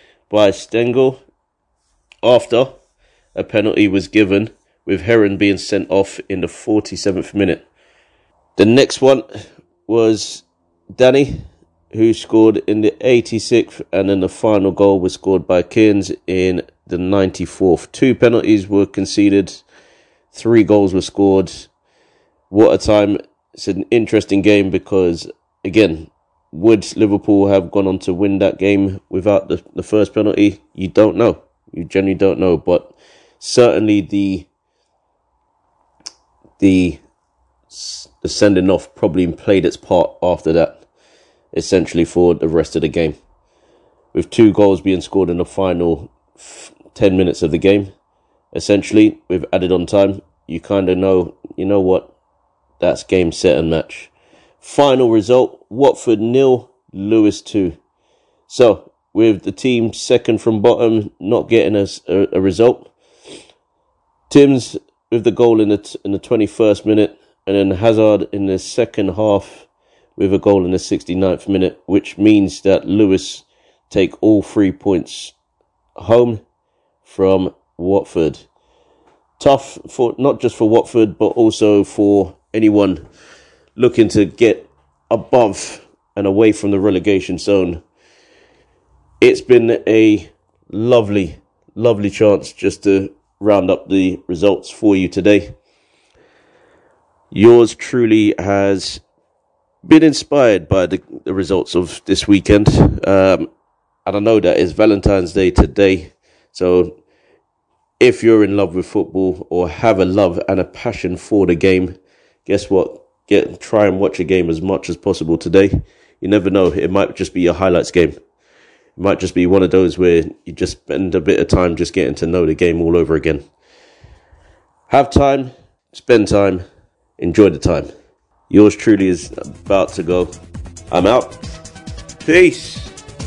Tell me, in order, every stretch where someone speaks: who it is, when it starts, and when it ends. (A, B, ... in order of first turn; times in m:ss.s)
0:00.3-0:01.2 A
0:02.2-0:02.8 A
0:03.3-0:07.6 A
0:08.6-0:19.6 A
0:20.3-0:21.7 A
0:22.5-0:34.5 A
0:36.6-0:37.0 A
0:37.7-0:40.8 A
0:41.5-0:43.2 A
0:44.1-0:47.9 A
0:48.5-0:52.1 A
0:52.8-0:57.8 A
0:58.5-1:02.9 A
1:04.3-1:15.3 A
1:16.0-1:16.4 A
1:17.0-1:18.5 A
1:19.4-1:23.0 A
1:23.8-1:27.8 A
1:29.2-1:35.5 A
1:37.3-1:39.0 A
1:39.8-1:43.5 A
1:44.0-1:47.0 A
1:48.0-1:58.2 A
1:59.0-2:03.5 A
2:04.9-2:06.6 A
2:07.2-2:07.9 A
2:08.5-2:10.3 A
2:10.9-2:11.4 A
2:12.2-2:12.9 A